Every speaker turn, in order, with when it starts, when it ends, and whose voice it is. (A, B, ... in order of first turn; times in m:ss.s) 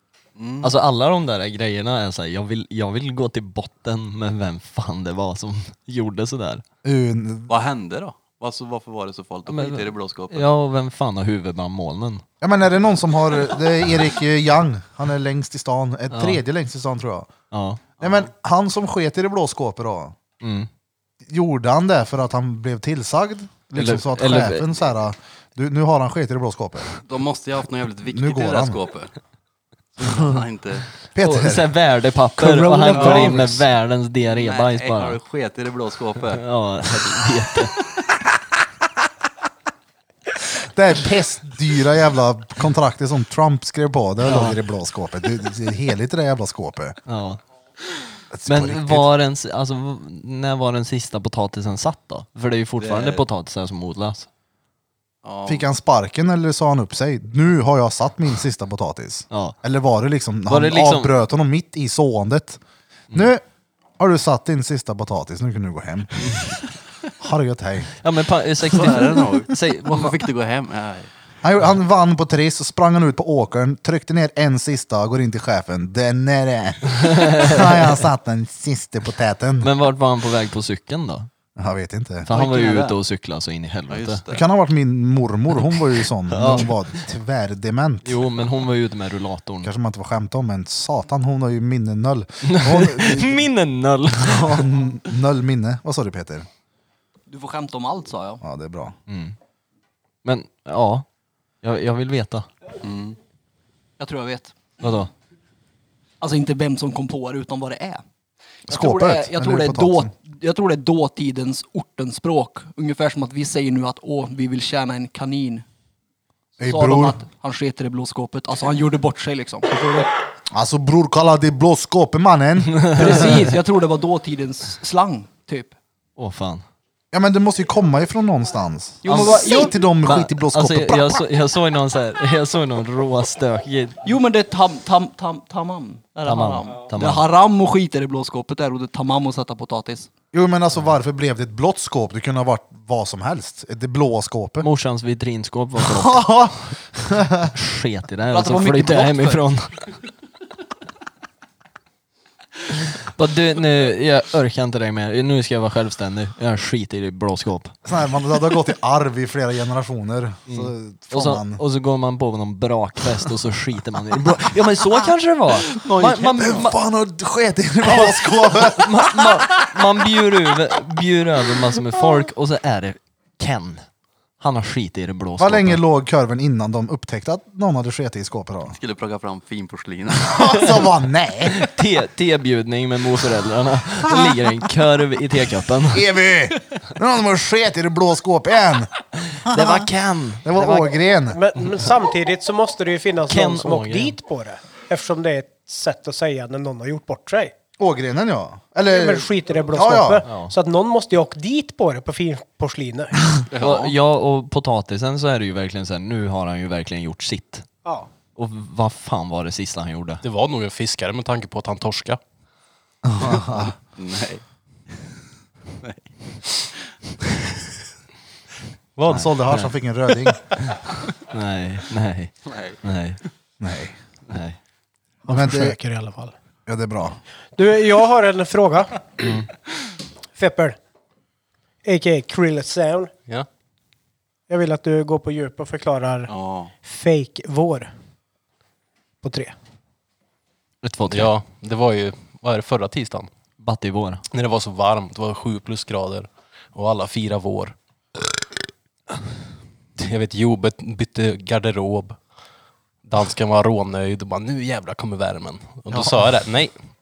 0:00.4-0:00.8 A
0:00.6-0:06.6 B
0:06.8-0:07.5 C
0:07.5-0:10.5 A
0:09.5-0:12.2 B
0:12.4-0:17.3 C
0:16.1-0:16.4 B
0:17.5-0:17.8 B
0:18.0-0:20.2 C
0:18.0-0:18.3 A
0:20.4-0:20.7 B
0:21.2-0:26.9 C
0:23.7-0:24.6 B
0:26.9-0:29.1 A
0:28.1-0:28.8 C
0:30.0-0:30.9 A
0:30.0-0:30.4 C
0:31.1-0:31.7 C
0:31.2-0:35.2 B
0:32.4-0:33.6 D
0:33.0-0:33.3 A
0:34.2-0:36.4 A
0:36.3-0:37.7 B
0:37.0-0:37.6 A
0:40.4-0:47.0 C
0:44.2-0:44.6 B
0:47.0-0:47.4 B
0:48.3-0:49.1 C
0:48.5-0:54.2 B
0:52.8-0:53.2 A
0:55.2-0:55.7 A
0:55.4-1:02.6 C
1:00.5-1:01.1 B
1:03.1-1:03.4 C
1:04.0-1:06.4 C
1:06.2-1:06.5 B
1:07.2-1:07.9 C
1:07.9-1:10.2 B
1:08.6-1:11.1 A
1:11.4-1:19.7 C
1:17.0-1:17.9 B
1:19.6-1:21.3 B
1:21.6-1:22.3 C
1:22.2-1:24.2 B
1:22.3-1:22.9 A
1:23.9-1:24.4 A
1:24.3-1:28.2 C
1:26.3-1:27.0 B
1:28.0-1:29.7 B
1:29.6-1:33.5 C
1:32.4-1:34.7 B
1:34.2-1:36.5 C
1:37.3-1:38.4 E
1:38.4-1:38.9 C
1:39.1-1:39.3 B
1:40.2-1:41.0 B
1:41.6-1:42.5 B
1:42.8-1:43.2 A
1:44.0-1:44.8 E
1:44.8-1:45.1 B
1:46.2-1:48.0 E
1:48.6-1:55.6 E
1:48.7-1:50.1 C
1:56.6-1:57.2 C
1:56.6-2:00.1 E
2:00.5-2:03.3 C
2:02.7-2:03.4 B
2:02.9-2:05.8 E
2:06.2-2:06.6 B
2:07.1-2:11.2 C
2:09.0-2:09.9 E
2:10.0-2:14.0 B
2:14.0-2:20.1 E
2:16.2-2:17.2 B
2:20.3-2:24.7 C
2:24.6-2:26.5 B
2:25.8-2:27.5 C
2:27.4-2:29.8 B
2:28.3-2:29.4 E
2:32.8-2:37.7 B
2:37.8-2:41.6 C
2:40.5-2:46.8 B
2:45.5-2:46.7 A
2:46.3-2:49.5 C
2:47.9-2:53.8 B
2:54.4-2:55.8 B
2:55.4-2:58.8 C
2:58.7-3:00.9 A
3:00.3-3:01.6 C
3:01.5-3:06.1 B
3:05.9-3:08.9 C
3:09.3-3:10.8 B
3:09.4-3:09.9 C
3:10.4-3:11.4 C
3:11.3-3:17.5 D
3:13.3-3:14.2 B
3:17.8-3:20.2 C
3:18.8-3:23.2 D
3:20.2-3:20.5 B
3:23.5-3:23.9 A
3:23.5-3:27.6 B
3:28.4-3:30.2 B
3:30.2-3:32.2 F
3:33.0-3:33.7 C
3:33.3-3:34.4 A
3:35.8-3:36.9 A
3:39.0-3:39.3 F
3:39.1-3:40.4 C
3:39.1-3:39.7 B
3:40.6-3:43.2 B
3:42.4-3:42.8 A
3:43.6-3:44.0 C
3:44.3-3:44.6 B
3:45.2-3:46.3 D
3:45.3-3:45.8 C
3:46.7-3:47.2 C
3:47.6-3:49.0 D
3:49.2-3:49.5 B
3:50.4-3:50.8 D
3:51.8-3:53.1 D
3:54.5-3:57.9 D
3:56.3-3:56.7 A
3:59.2-3:59.5 D
4:00.8-4:01.3 B
4:01.1-4:03.3 F
4:03.6-4:04.2 B
4:04.3-4:07.8 F
4:10.0-4:12.2 F
4:13.0-4:16.8 F